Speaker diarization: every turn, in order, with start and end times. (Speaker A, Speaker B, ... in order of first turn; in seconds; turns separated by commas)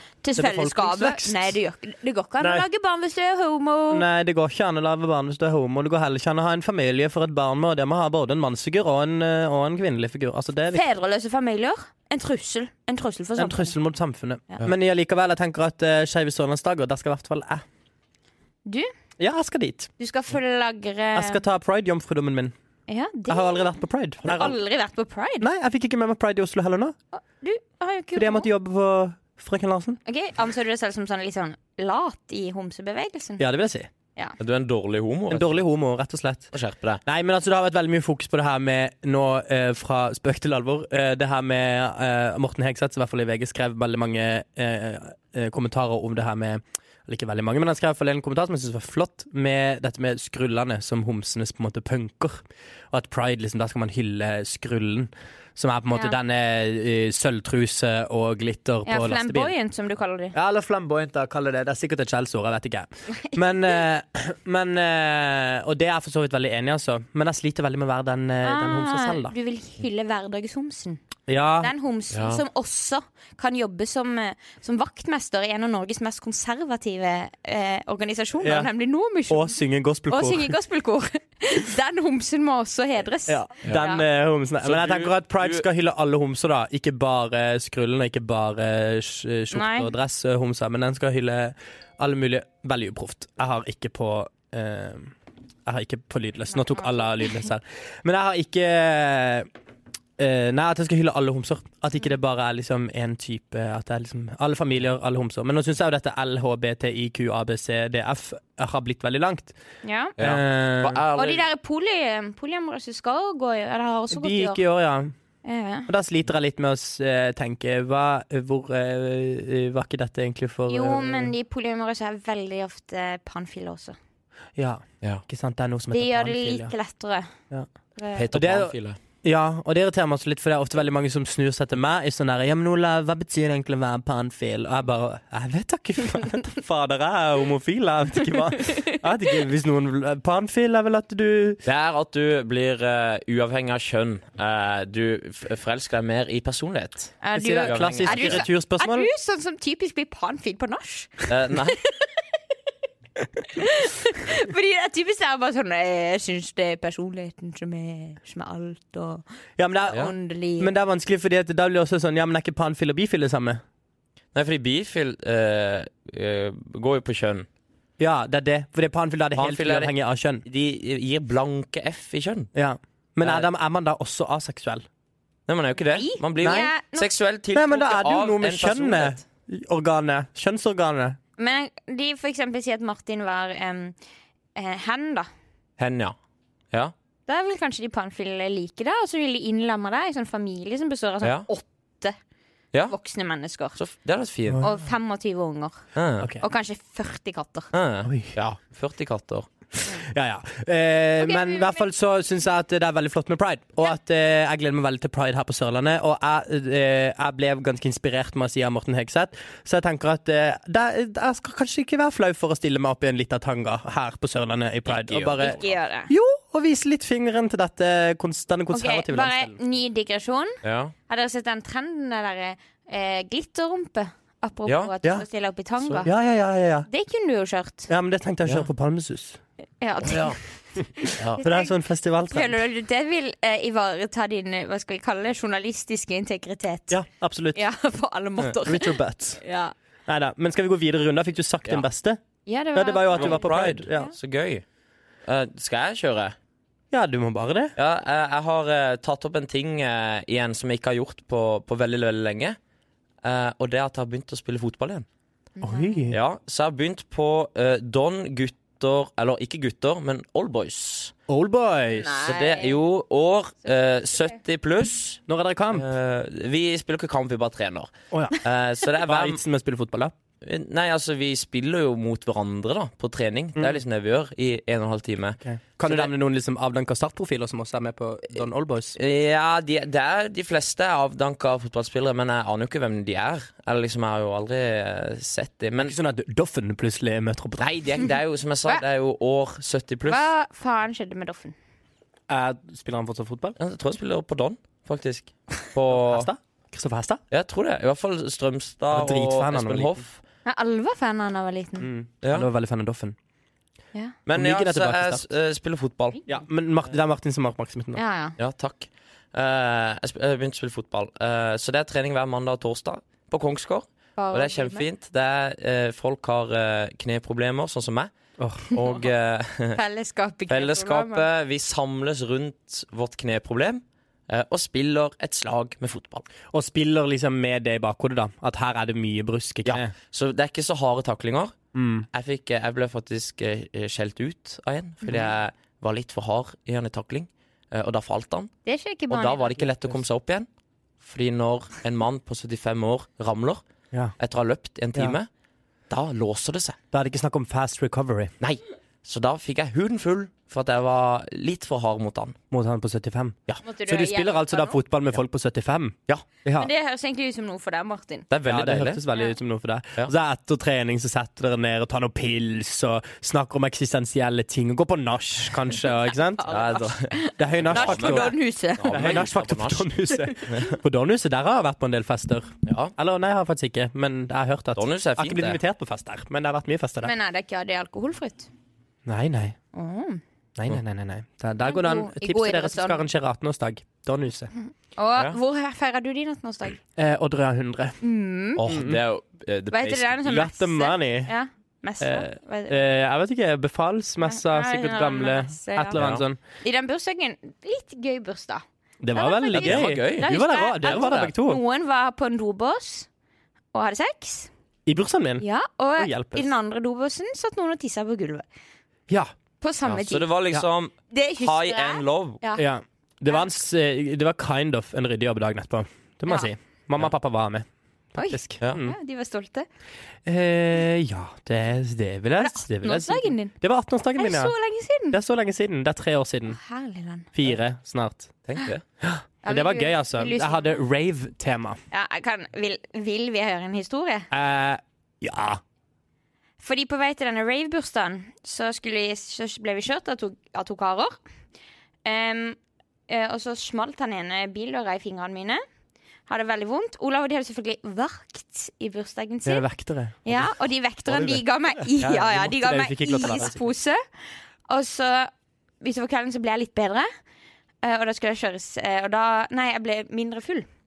Speaker A: 0.2-4.1, Speaker B: 0.4-1.5, Speaker B: 2.4-2.7, Speaker B: 3.9-10.8, Speaker A: 10.7-13.8, Speaker B: 13.4-17.6, Speaker A: 18.7-18.9, Speaker B: 19.2-19.9, Speaker A: 20.0-21.4, Speaker B: 21.1-22.5, Speaker A: 22.9-23.7, Speaker B: 23.3-24.6, Speaker A: 24.2-25.5, Speaker B: 25.4-26.9, Speaker A: 27.1-28.5, Speaker B: 28.2-30.0, Speaker A: 30.1-33.4, Speaker B: 33.4-33.9, Speaker C: 34.4-35.6, Speaker B: 35.3-36.5, Speaker C: 36.5-37.0, Speaker B: 37.1-59.5, Speaker A: 58.9-60.4, Speaker B: 60.3-69.3, Speaker A: 68.4-71.0, Speaker B: 71.3-71.7, Speaker A: 71.6-79.6, Speaker C: 72.1-72.4, Speaker B: 78.4-78.7, Speaker B: 79.3-80.5, Speaker A: 80.1-84.0, Speaker B: 83.3-95.1, Speaker C: 84.6-85.7, Speaker A: 89.5-89.9, Speaker B: 95.7-99.5, Speaker A: 96.5-97.4, Speaker B: 100.2-109.5, Speaker A: 109.8-110.2, Speaker C: 110.2-111.5, Speaker B: 110.2-111.0, Speaker A: 111.2-114.6, Speaker B: 114.1-115.1, Speaker A: 115.4-115.9, Speaker B: 115.9-121.3, Speaker A: 120.7-124.0, Speaker B: 124.6-126.7, Speaker A: 125.9-127.3, Speaker A: 128.0-128.3, Speaker C: 128.2-129.0, Speaker B: 128.3-141.6, Speaker C: 141.6-148.5, Speaker A: 147.2-152.1, Speaker B: 147.3-149.1, Speaker C: 151.3-151.8, Speaker A: 153.4-159.2, Speaker B: 159.6-160.0, Speaker A: 159.9-160.7, Speaker B: 160.6-163.6, Speaker C: 164.3-167.5, Speaker B: 168.0-170.4, Speaker C: 169.3-172.5, Speaker B: 172.5-174.8, Speaker C: 175.5-179.2, Speaker A: 175.9-177.1, Speaker B: 176.4-176.7, Speaker B: 177.5-181.2, Speaker A: 181.4-183.9, Speaker A: 184.6-185.3, Speaker C: 185.8-186.2, Speaker A: 187.3-192.2, Speaker A: 192.9-193.8, Speaker C: 193.8-194.6, Speaker A: 194.6-195.9, Speaker C: 195.9-196.3, Speaker A: 196.4-197.7, Speaker C: 197.7-199.5, Speaker B: 198.1-198.3, Speaker B: 199.8-219.6, Speaker A: 201.2-201.8, Speaker C: 214.9-215.8, Speaker A: 215.4-216.1, Speaker A: 218.7-226.1, Speaker C: 220.6-220.9, Speaker C: 224.7-224.9, Speaker C: 225.8-226.1, Speaker B: 226.1-226.9, Speaker A: 226.9-227.9, Speaker B: 227.9-229.4, Speaker A: 229.8-230.4, Speaker C: 230.0-230.4, Speaker A: 231.0-231.7, Speaker C: 231.2-231.4, Speaker B: 231.4-232.6, Speaker A: 232.3-237.0, Speaker B: 236.9-237.6, Speaker A: 237.6-239.8, Speaker B: 238.7-239.4, Speaker B: 240.1-242.2, Speaker A: 242.5-244.1, Speaker B: 242.7-244.1, Speaker C: 243.2-244.6, Speaker C: 245.3-246.3, Speaker B: 246.9-247.8, Speaker C: 247.8-252.6, Speaker C: 253.2-255.1, Speaker A: 255.6-256.1, Speaker B: 255.6-256.2, Speaker C: 256.1-261.1, Speaker B: 261.3-262.1, Speaker A: 261.9-262.8, Speaker C: 262.2-269.4, Speaker B: 265.3-265.9, Speaker B: 268.1-268.4, Speaker B: 269.1-270.1, Speaker C: 270.4-276.1, Speaker B: 275.4-279.0, Speaker C: 279.0-285.9, Speaker B: 285.8-287.7, Speaker C: 287.6-290.3, Speaker A: 290.1-291.5, Speaker B: 292.3-293.6, Speaker C: 293.6-296.3, Speaker B: 295.9-297.2, Speaker C: 297.3-300.2, Speaker B: 298.9-300.0, Speaker A: 300.4-301.9, Speaker B: 301.8-303.1, Speaker C: 304.3-306.2, Speaker B: 304.3-305.2, Speaker B: 306.3-308.0, Speaker A: 308.0-308.4, Speaker C: 308.4-318.1, Speaker A: 314.2-314.9, Speaker B: 318.4-318.7, Speaker A: 318.7-319.1, Speaker C: 318.7-319.8, Speaker A: 319.8-321.3, Speaker C: 320.5-326.3, Speaker B: 326.5-329.9, Speaker C: 329.6-331.6, Speaker B: 331.8-332.1, Speaker C: 332.1-338.5, Speaker A: 338.7-339.5, Speaker C: 339.1-340.5, Speaker C: 341.0-343.6, Speaker C: 344.2-345.3, Speaker C: 345.9-346.8, Speaker B: 346.9-348.3, Speaker C: 348.4-352.4, Speaker B: 352.5-356.7, Speaker A: 353.6-354.8, Speaker A: 356.6-358.3, Speaker C: 358.3-359.0, Speaker B: 358.4-366.4, Speaker A: 366.4-369.2, Speaker C: 366.5-369.9, Speaker B: 367.4-377.1, Speaker C: 372.6-372.9, Speaker C: 374.8-375.6, Speaker A: 377.0-378.5, Speaker B: 379.1-379.6, Speaker A: 379.7-380.2, Speaker B: 380.6-384.5, Speaker A: 381.6-383.1, Speaker A: 384.6-386.8, Speaker B: 387.0-388.0, Speaker A: 388.0-388.7, Speaker C: 388.6-390.4, Speaker B: 388.7-389.0, Speaker A: 389.7-392.8, Speaker B: 390.3-391.3, Speaker B: 392.0-396.4, Speaker A: 394.2-396.0, Speaker C: 395.9-396.2, Speaker A: 396.6-398.6, Speaker B: 399.0-401.6, Speaker A: 399.1-403.1, Speaker C: 399.5-400.3, Speaker A: 403.7-404.5, Speaker B: 404.9-405.4, Speaker A: 405.4-408.5, Speaker B: 406.0-406.5, Speaker A: 409.6-410.3, Speaker C: 409.8-412.4, Speaker A: 411.1-412.6, Speaker B: 412.6-419.0, Speaker A: 418.2-419.7, Speaker B: 420.3-424.5, Speaker A: 422.4-423.5, Speaker A: 424.2-425.2, Speaker B: 425.1-426.6, Speaker A: 426.5-427.3, Speaker B: 427.4-428.3, Speaker C: 428.5-428.8, Speaker B: 429.0-431.8, Speaker A: 429.4-430.8, Speaker A: 431.9-434.3, Speaker B: 434.3-435.6, Speaker A: 436.6-441.2, Speaker A: 442.1-442.6, Speaker A: 443.1-445.6, Speaker A: 446.3-449.7, Speaker B: 449.4-450.3, Speaker A: 450.3-454.0, Speaker B: 451.1-451.4, Speaker B: 452.0-453.6, Speaker A: 454.7-455.3, Speaker A: 455.8-457.1, Speaker A: 457.8-460.7